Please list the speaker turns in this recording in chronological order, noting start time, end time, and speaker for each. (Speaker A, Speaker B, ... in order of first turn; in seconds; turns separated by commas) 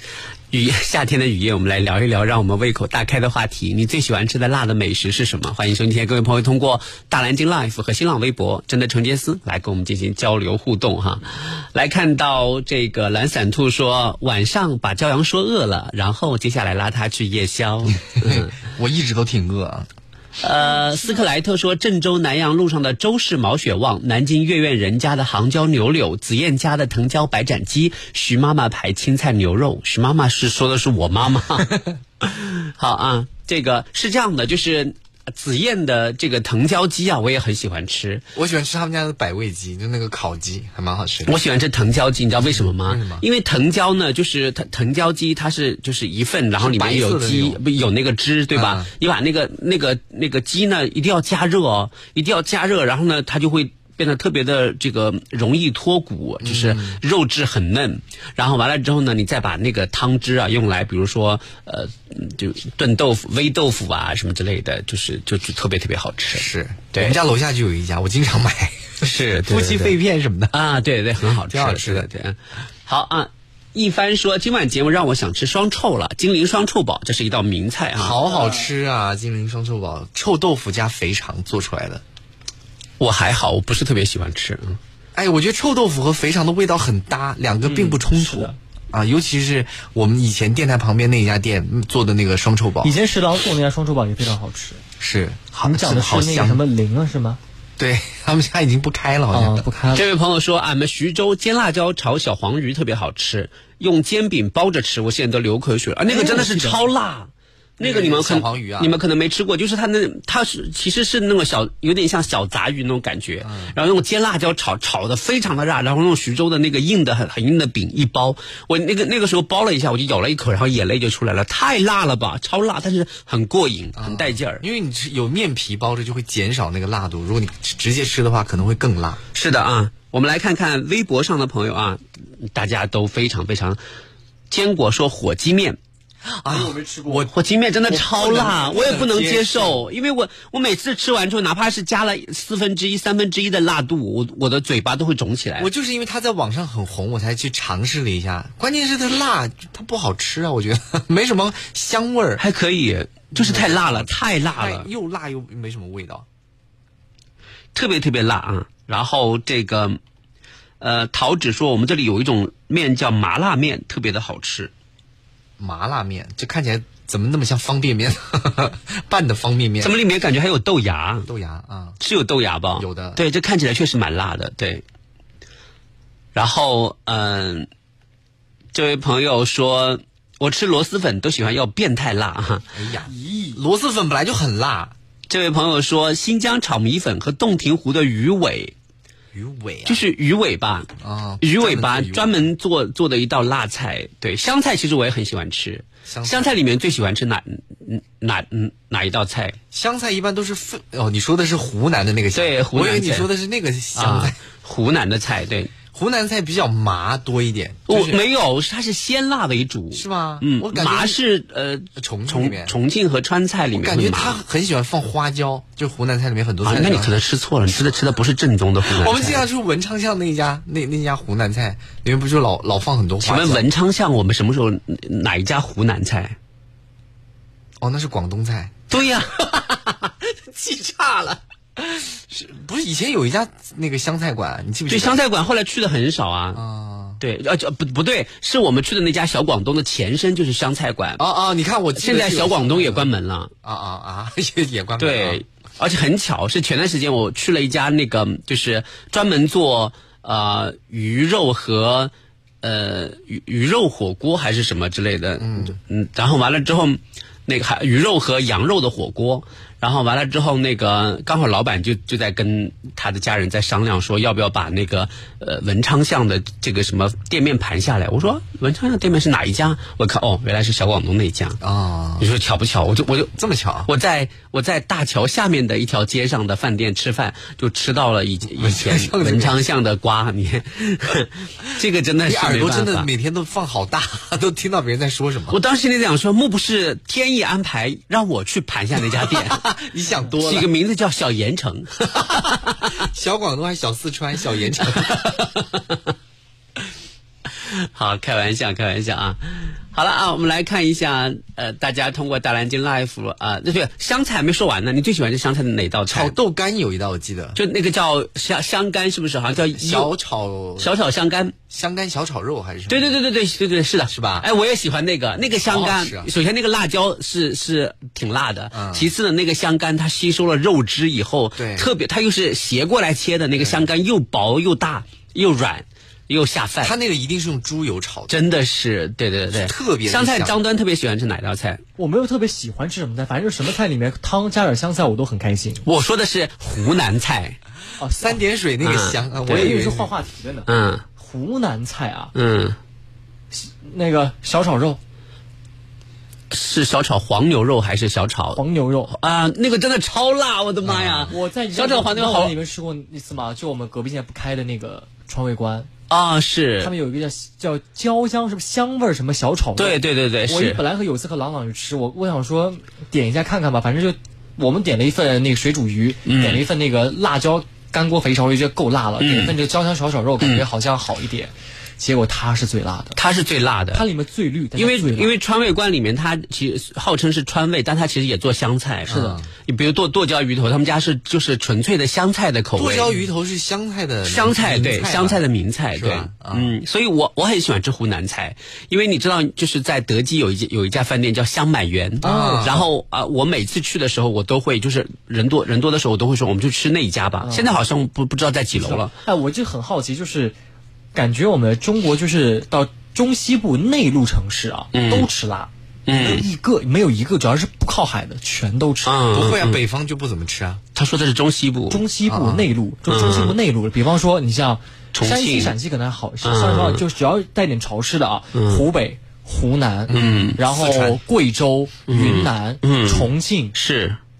Speaker A: 0.5-18.5, Speaker B: 18.2-19.9, Speaker A: 20.4-38.2, Speaker B: 38.3-41.3, Speaker A: 41.2-67.2, Speaker B: 42.5-43.2, Speaker B: 46.6-47.6, Speaker B: 48.5-48.9, Speaker B: 56.4-57.0, Speaker B: 66.3-70.5, Speaker A: 69.0-70.0, Speaker A: 70.5-78.2, Speaker B: 71.5-72.1, Speaker B: 77.9-82.0, Speaker C: 78.2-78.7, Speaker A: 83.0-84.8, Speaker B: 85.1-93.0, Speaker C: 87.6-88.5, Speaker C: 92.8-94.8, Speaker B: 95.0-96.6, Speaker C: 95.6-97.4, Speaker B: 97.8-99.7, Speaker C: 99.3-100.0, Speaker A: 99.9-124.6, Speaker C: 106.1-106.8, Speaker B: 107.8-109.0, Speaker B: 113.4-113.7, Speaker B: 124.0-129.2, Speaker A: 129.3-133.8, Speaker A: 134.5-135.8, Speaker B: 136.4-137.3, Speaker C: 136.5-137.3, Speaker A: 137.3-145.7, Speaker B: 137.8-139.8, Speaker B: 145.6-152.4, Speaker A: 152.4-154.9, Speaker B: 153.3-156.2, Speaker A: 157.7-160.0, Speaker A: 160.8-164.7, Speaker B: 165.6-169.9, Speaker A: 169.8-171.3, Speaker B: 171.2-172.0, Speaker A: 172.0-174.8, Speaker B: 172.8-173.2, Speaker A: 176.3-177.7, Speaker A: 178.7-182.7, Speaker B: 182.7-184.9, Speaker C: 183.1-183.6, Speaker A: 185.3-188.7, Speaker B: 189.3-190.0, Speaker A: 189.8-190.9, Speaker B: 191.0-192.4, Speaker A: 191.4-199.6, Speaker B: 196.1-196.5, Speaker B: 199.7-204.4, Speaker A: 202.3-203.3, Speaker A: 203.9-205.7, Speaker B: 205.9-208.2, Speaker A: 207.9-214.4, Speaker B: 209.9-211.2, Speaker B: 212.0-212.8, Speaker B: 213.7-217.1, Speaker A: 216.6-219.4, Speaker B: 218.8-223.7, Speaker A: 223.2-226.3, Speaker B: 227.8-228.8, Speaker A: 228.9-229.9, Speaker A: 230.6-231.2, Speaker B: 230.8-235.2, Speaker A: 234.9-236.6, Speaker B: 236.5-237.2, Speaker A: 237.2-241.2, Speaker B: 241.2-243.1, Speaker A: 241.9-243.5, Speaker B: 243.6-245.4, Speaker A: 245.0-271.6, Speaker B: 255.4-255.8, Speaker B: 271.6-272.3, Speaker A: 272.2-283.1, Speaker B: 273.4-273.9, Speaker B: 278.6-279.6, Speaker B: 282.2-285.6, Speaker A: 285.5-289.7, Speaker B: 289.0-290.7, Speaker A: 290.4-293.0, Speaker B: 292.1-295.6, Speaker A: 297.6-306.3, Speaker B: 306.1-307.6, Speaker A: 307.5-310.1, Speaker B: 309.5-310.9, Speaker A: 310.8-311.5, Speaker B: 311.7-313.1, Speaker A: 312.9-326.9, Speaker B: 314.1-314.5, Speaker B: 315.6-316.3, Speaker B: 318.7-319.1, Speaker B: 321.6-321.9, Speaker B: 323.6-323.8, Speaker B: 326.8-328.4, Speaker A: 328.3-331.8, Speaker B: 329.5-330.6, Speaker C: 332.0-335.8, Speaker A: 335.9-337.6, Speaker C: 338.0-338.4, Speaker B: 338.1-340.1, Speaker A: 338.8-339.8, Speaker C: 339.5-342.3, Speaker A: 340.7-341.0, Speaker A: 342.3-342.8, Speaker C: 343.5-345.0, Speaker A: 346.5-352.5, Speaker C: 348.6-349.1, Speaker B: 350.8-351.3, Speaker C: 351.3-355.9, Speaker A: 356.1-356.9, Speaker C: 356.8-373.1, Speaker A: 359.8-360.8, Speaker A: 366.3-366.6, Speaker A: 369.2-369.5, Speaker A: 370.4-370.6, Speaker A: 373.1-374.0, Speaker C: 373.9-375.3, Speaker A: 374.8-383.1, Speaker B: 379.1-379.5, Speaker C: 379.1-379.4, Speaker B: 382.7-385.4, Speaker A: 384.2-399.1, Speaker B: 385.9-386.7, Speaker B: 392.2-392.9, Speaker C: 392.2-392.7, Speaker C: 397.4-397.7, Speaker C: 398.8-400.6, Speaker C: 401.1-409.1, Speaker A: 404.9-405.3, Speaker A: 406.1-406.4, Speaker A: 409.0-409.8, Speaker B: 409.3-410.8, Speaker A: 410.9-412.0, Speaker C: 411.9-423.7, Speaker B: 412.2-412.7, Speaker A: 413.1-413.6, Speaker A: 415.1-415.7, Speaker A: 416.4-417.0, Speaker A: 418.5-418.8, Speaker B: 420.1-420.9, Speaker A: 420.1-421.1, Speaker A: 422.1-424.2